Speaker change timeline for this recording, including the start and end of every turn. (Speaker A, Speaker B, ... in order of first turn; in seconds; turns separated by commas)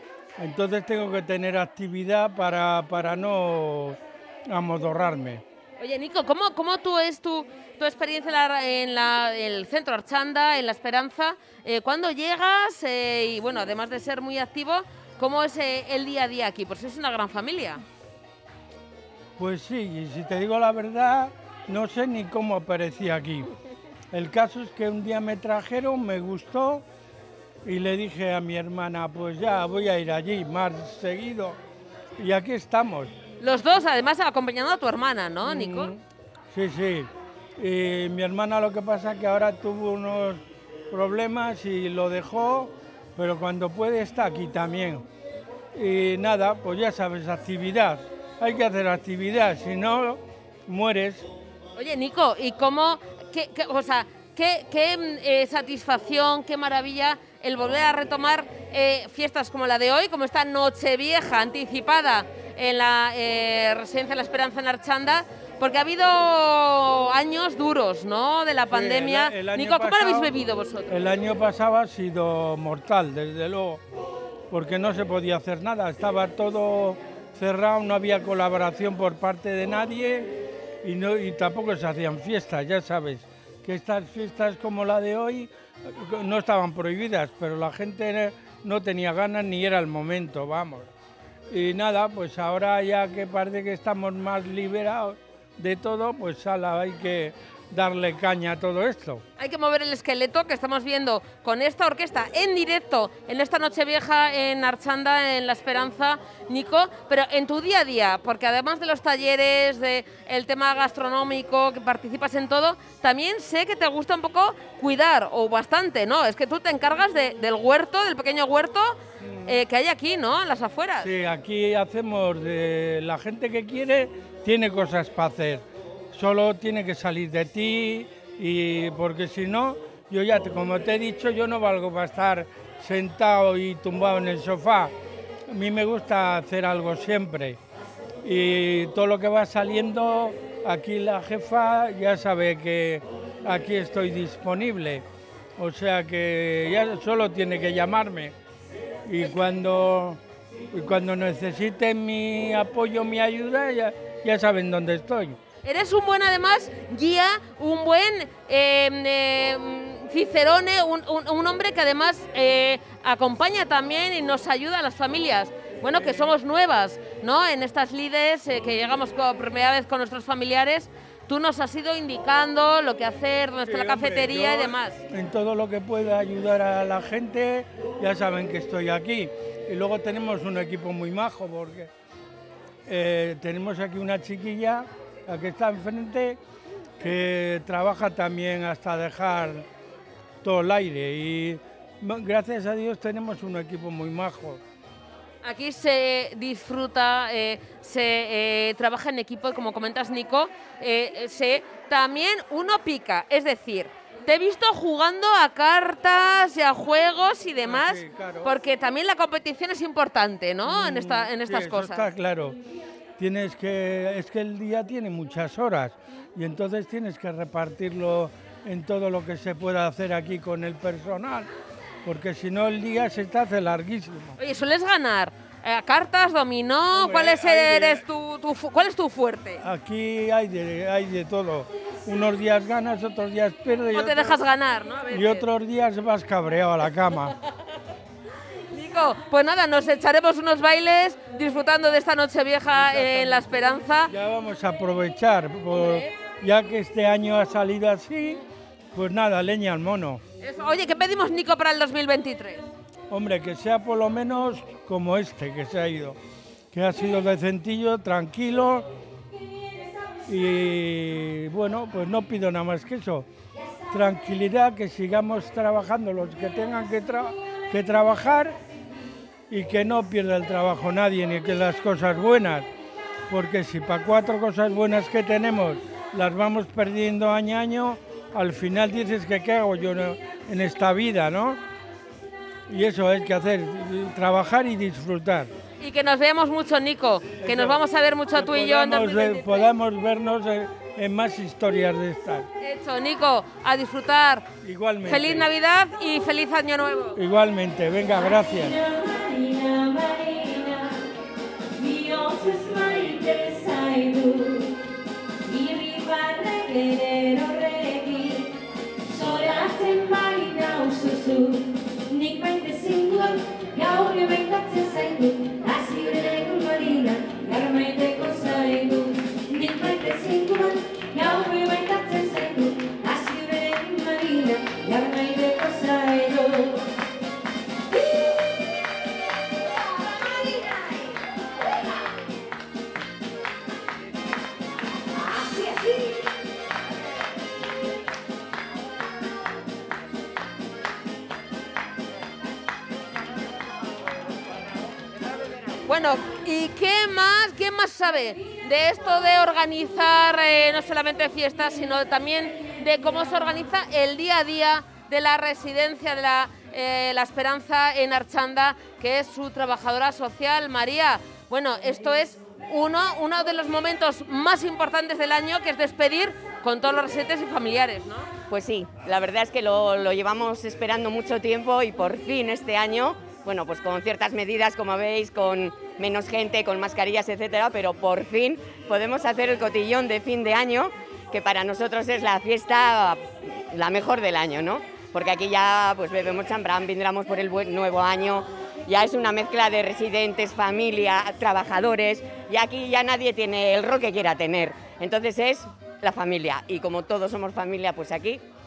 Speaker A: 0.4-5.4, Speaker B: 5.8-17.8, Speaker A: 19.4-23.5, Speaker A: 24.1-26.9, Speaker A: 27.6-31.6, Speaker A: 32.2-33.1, Speaker B: 33.4-36.0, Speaker A: 35.5-36.0, Speaker A: 36.5-45.1, Speaker A: 45.8-51.3, Speaker B: 51.8-71.0, Speaker A: 68.7-70.3, Speaker A: 70.9-73.8, Speaker A: 74.5-90.9, Speaker A: 91.5-99.2, Speaker B: 99.4-121.1, Speaker A: 119.2-119.6, Speaker A: 121.0-134.9, Speaker A: 135.5-137.6, Speaker A: 138.2-145.1, Speaker A: 145.6-148.4, Speaker A: 149.1-150.2, Speaker A: 150.7-155.4, Speaker B: 155.6-175.0, Speaker A: 173.6-181.9, Speaker A: 182.9-186.4, Speaker A: 187.0-189.7, Speaker A: 190.4-194.6, Speaker B: 195.4-212.1, Speaker A: 207.7-208.5, Speaker A: 210.7-212.6, Speaker A: 213.2-221.5, Speaker A: 222.1-224.4, Speaker B: 224.4-229.6, Speaker A: 227.0-228.0, Speaker A: 229.6-234.4, Speaker B: 233.9-235.4, Speaker A: 235.1-237.3, Speaker B: 238.7-244.1, Speaker A: 242.8-243.4, Speaker A: 244.1-248.4, Speaker B: 245.7-246.1, Speaker A: 248.9-250.2, Speaker B: 250.4-252.6, Speaker A: 253.1-256.2, Speaker A: 256.7-258.9, Speaker A: 260.3-263.3, Speaker A: 263.9-268.6, Speaker A: 269.5-272.7, Speaker A: 273.3-281.6, Speaker A: 282.7-285.5, Speaker B: 285.8-289.7, Speaker A: 287.4-292.5, Speaker B: 292.6-294.4, Speaker A: 294.6-295.5, Speaker B: 295.1-297.2, Speaker A: 297.1-298.8, Speaker C: 298.2-300.9, Speaker C: 301.8-304.8, Speaker C: 305.4-308.6, Speaker C: 309.1-326.8, Speaker C: 330.3-330.8, Speaker C: 335.3-336.0, Speaker B: 345.9-368.3, Speaker D: 368.5-398.4